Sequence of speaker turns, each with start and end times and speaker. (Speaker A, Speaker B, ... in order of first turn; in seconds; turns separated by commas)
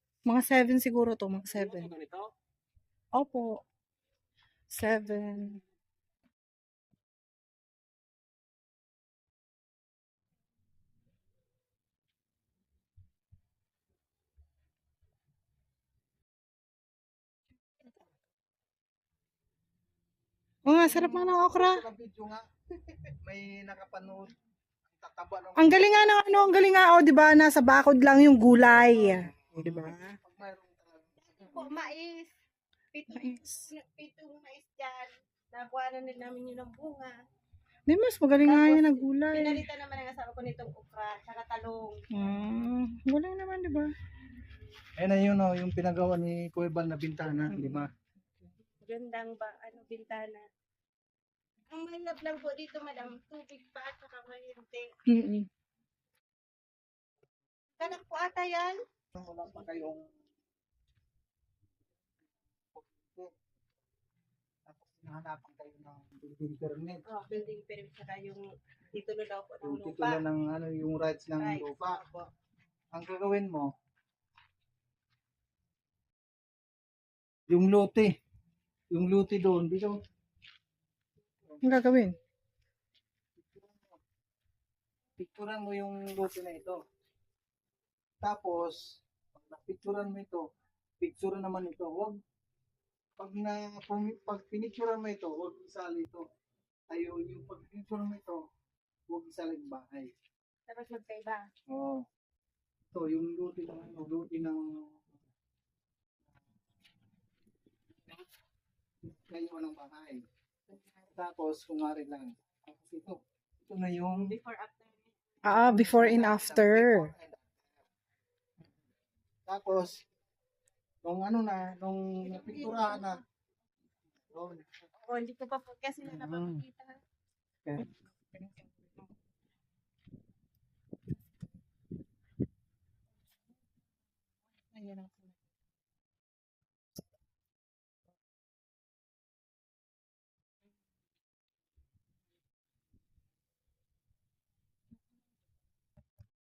Speaker A: 0.3-2.0, Speaker A: 3.1-3.6, Speaker A: 4.7-5.6, Speaker A: 20.7-21.8, Speaker B: 20.8-24.4, Speaker B: 24.9-25.9, Speaker A: 25.6-30.2, Speaker B: 29.5-31.1, Speaker C: 31.2-32.3, Speaker C: 32.9-37.2, Speaker A: 33.1-33.7, Speaker A: 37.9-39.6, Speaker C: 38.4-42.0, Speaker A: 42.1-43.9, Speaker B: 45.0-47.9, Speaker C: 48.8-50.5, Speaker C: 51.7-54.9, Speaker A: 55.1-55.5, Speaker C: 57.8-58.8, Speaker B: 59.1-60.1, Speaker B: 62.7-63.3, Speaker B: 64.7-67.0, Speaker C: 67.1-70.2, Speaker B: 69.6-72.0, Speaker C: 71.4-72.3, Speaker B: 72.9-73.7, Speaker B: 77.5-78.1, Speaker B: 78.9-80.0, Speaker A: 81.6-82.2, Speaker B: 83.4-84.0, Speaker B: 85.2-86.8, Speaker B: 88.2-90.5, Speaker B: 91.0-92.2, Speaker B: 93.2-96.3, Speaker B: 96.9-98.5, Speaker B: 99.1-100.1, Speaker C: 100.7-101.5, Speaker B: 101.7-102.1, Speaker B: 102.9-105.0, Speaker B: 109.1-110.2, Speaker B: 111.1-114.3, Speaker C: 114.2-115.1, Speaker A: 115.4-117.1, Speaker B: 115.5-117.5, Speaker B: 119.5-120.0, Speaker B: 121.0-123.2, Speaker C: 122.4-123.1, Speaker B: 124.3-124.7, Speaker C: 125.0-127.0, Speaker B: 126.1-126.6, Speaker A: 134.7-135.2